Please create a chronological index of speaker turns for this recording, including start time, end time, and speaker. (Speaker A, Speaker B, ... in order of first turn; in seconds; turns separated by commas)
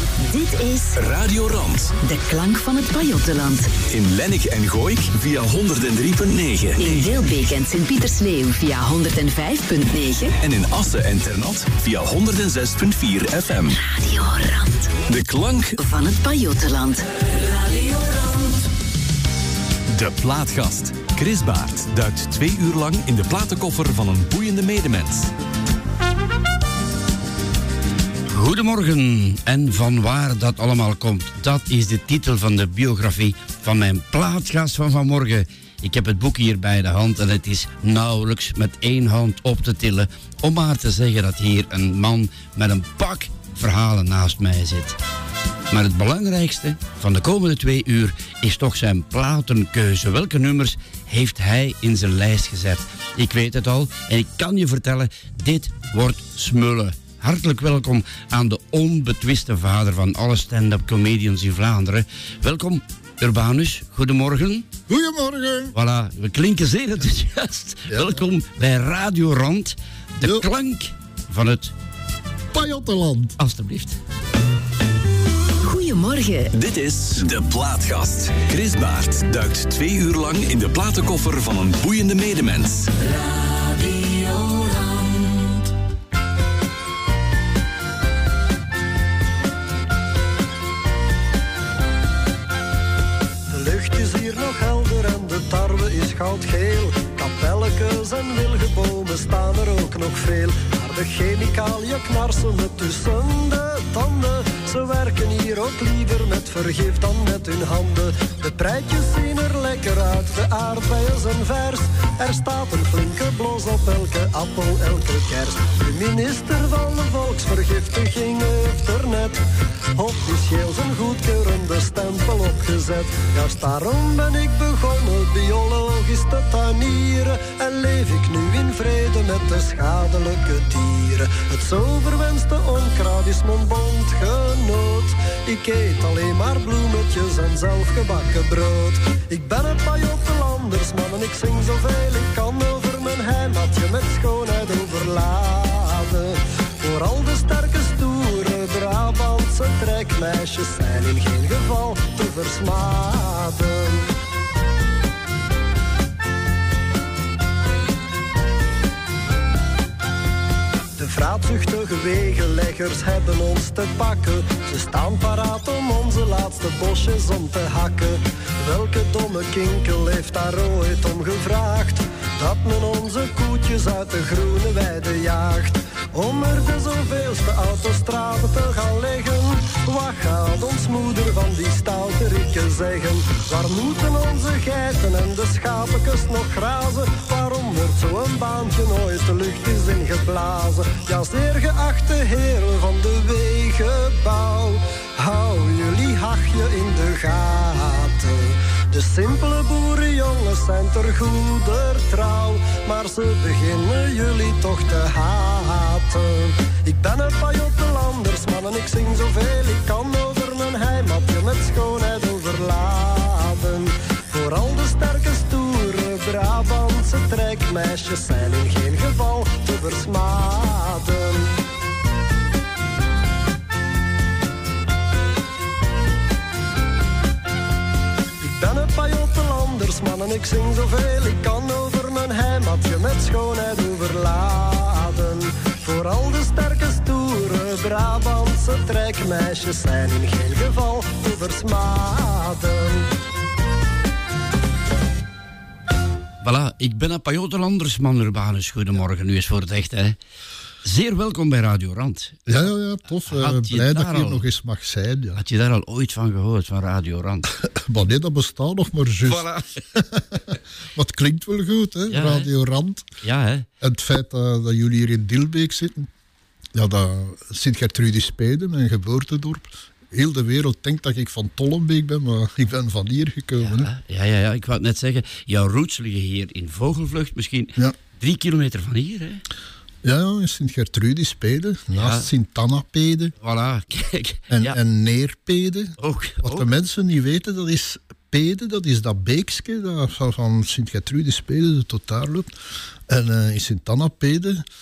Speaker A: 0.3-0.9, Speaker B: 1.0-1.9, Speaker A: 2.0-3.7, Speaker B: 3.9-7.1, Speaker A: 6.8-10.3, Speaker B: 10.4-13.8, Speaker A: 13.9-14.8, Speaker B: 15.1-15.8, Speaker A: 15.8-18.5, Speaker B: 19.9-25.3, Speaker C: 28.3-45.0, Speaker C: 45.7-64.7, Speaker D: 64.9-65.8, Speaker C: 65.7-71.7, Speaker D: 67.9-68.2, Speaker D: 70.2-70.5, Speaker D: 72.5-73.4, Speaker C: 73.4-74.0, Speaker A: 75.6-76.5, Speaker B: 76.5-82.9, Speaker E: 93.5-154.1, Speaker E: 161.0-221.6, Speaker E: 228.4-243.1, Speaker C: 246.4-250.2, Speaker C: 250.8-252.6, Speaker D: 252.5-255.4, Speaker C: 253.2-254.4, Speaker C: 255.4-257.5, Speaker D: 257.6-263.1, Speaker C: 259.2-259.8, Speaker C: 262.1-262.5, Speaker C: 263.2-263.7, Speaker D: 263.8-266.1, Speaker D: 266.8-273.9, Speaker C: 273.6-279.4, Speaker D: 280.0-283.3, Speaker C: 281.9-282.3, Speaker C: 283.4-284.8, Speaker D: 284.5-292.5, Speaker C: 286.0-286.7, Speaker D: 293.1-294.6